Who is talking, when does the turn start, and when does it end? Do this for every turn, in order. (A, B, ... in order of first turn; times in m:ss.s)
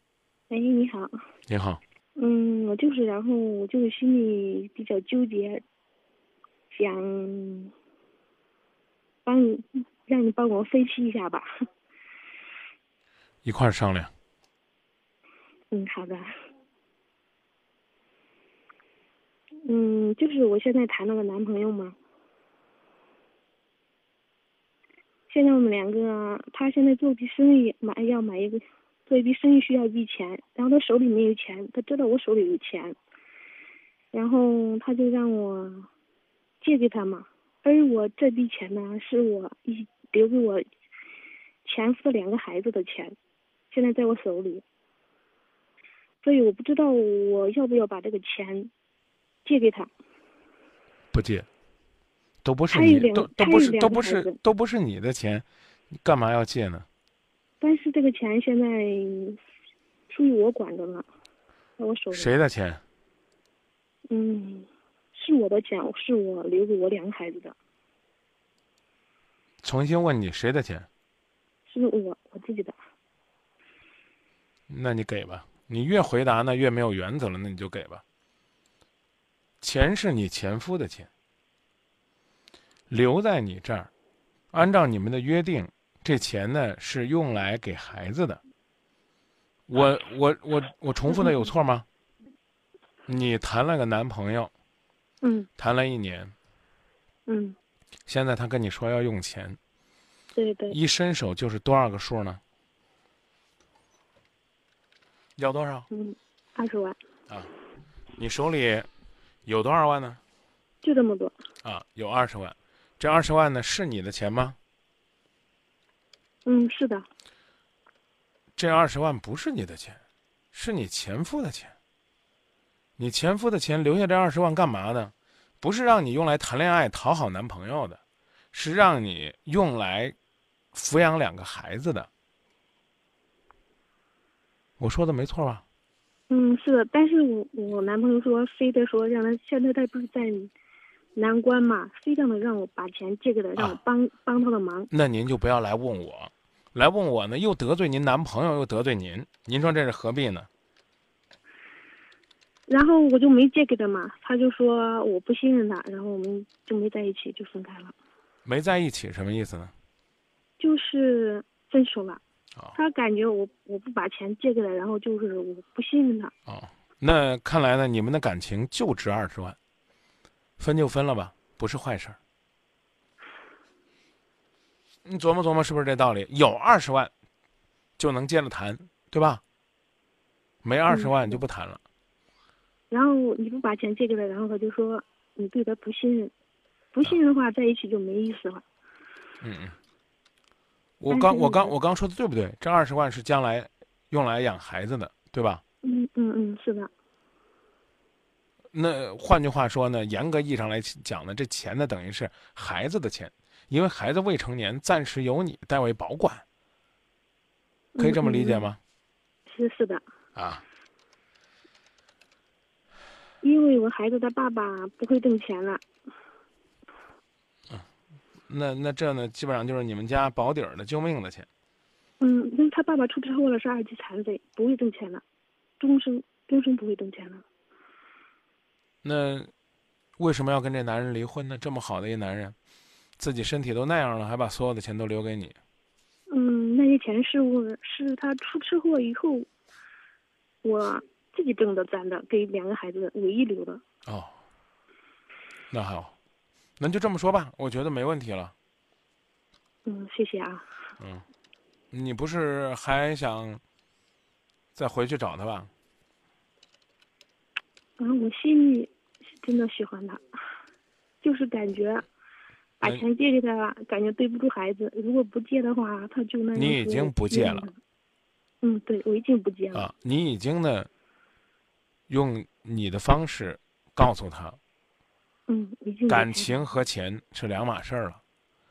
0:00.5-0:01.1 A
0:01.5-0:01.8 B
0:02.2-0:05.6 A
0:06.7-0:07.7 A
0:09.2-0:11.5 A
0:13.4-0:14.1 B
0:15.7-0:16.3 A
0:19.6-0:21.9 A
0:25.3-0:33.0 A
0:34.1-0:35.9 A
0:36.6-0:40.6 A
0:41.6-0:43.1 A
0:43.7-0:44.6 A
0:46.2-0:48.7 A
0:49.4-0:49.9 A
0:51.1-0:51.4 B
0:52.4-0:56.8 B
0:52.7-0:54.3 A
0:57.6-0:59.4 A
1:00.1-1:01.0 A
1:01.8-1:02.3 A
1:02.1-1:02.8 B
1:04.1-1:07.5 A
1:09.6-1:10.9 B
1:11.7-1:12.8 A
1:14.7-1:18.0 B
1:19.6-1:21.1 B
1:22.9-1:23.9 B
1:24.5-1:28.4 B
1:29.7-1:31.8 B
1:33.1-1:34.5 B
1:35.2-1:35.5 A
1:35.6-1:36.3 B
1:37.3-1:37.6 A
1:38.1-1:39.6 B
1:40.4-1:40.8 A
1:40.7-1:42.4 B
1:45.4-1:45.9 B
1:45.9-1:47.0 A
1:48.2-1:48.9 B
1:49.4-1:50.2 B
1:50.8-1:51.4 A
1:51.6-1:54.6 B
1:56.4-1:57.1 A
1:58.6-2:00.0 B
2:00.5-2:01.7 B
2:03.0-2:08.0 B
2:08.5-2:10.1 B
2:10.7-2:12.1 B
2:14.8-2:15.6 B
2:16.3-2:20.5 A
2:21.2-2:24.9 A
2:24.9-2:30.5 B
2:32.7-2:37.9 A
2:38.4-2:39.7 B
2:40.6-2:42.2 A
2:42.7-2:46.3 A
2:46.5-2:49.6 B
2:50.6-2:52.2 B
2:55.0-2:57.1 B
2:58.0-2:59.4 B
3:00.6-3:01.8 B
3:00.9-3:01.4 A
3:02.9-3:06.3 A
3:06.9-3:08.6 A
3:09.4-3:09.8 B
3:11.0-3:15.6 B
3:11.1-3:11.7 A
3:15.8-3:16.9 A
3:18.7-3:26.4 B
3:28.0-3:28.7 A
3:28.0-3:28.8 B
3:29.5-3:30.0 A
3:30.4-3:30.6 B
3:33.4-3:35.8 A
3:38.5-3:41.5 B
3:42.2-3:45.2 A
3:45.8-3:47.4 A
3:49.0-3:49.5 B
3:50.2-3:52.6 B
3:53.2-3:55.6 B
3:56.3-3:59.5 A
4:00.6-4:03.8 A
4:04.1-4:04.4 B
4:05.7-4:06.1 B
4:06.8-4:08.5 B
4:09.8-4:10.6 A
4:11.9-4:13.6 B
4:14.7-4:15.7 B
4:18.0-4:18.9 A
4:19.4-4:20.2 A
4:21.2-4:22.0 A
4:22.8-4:27.7 A
4:26.5-4:27.7 B
4:28.6-4:29.9 A
4:29.7-4:30.9 B
4:32.1-4:34.6 B
4:35.5-4:36.6 A
4:36.1-4:38.2 B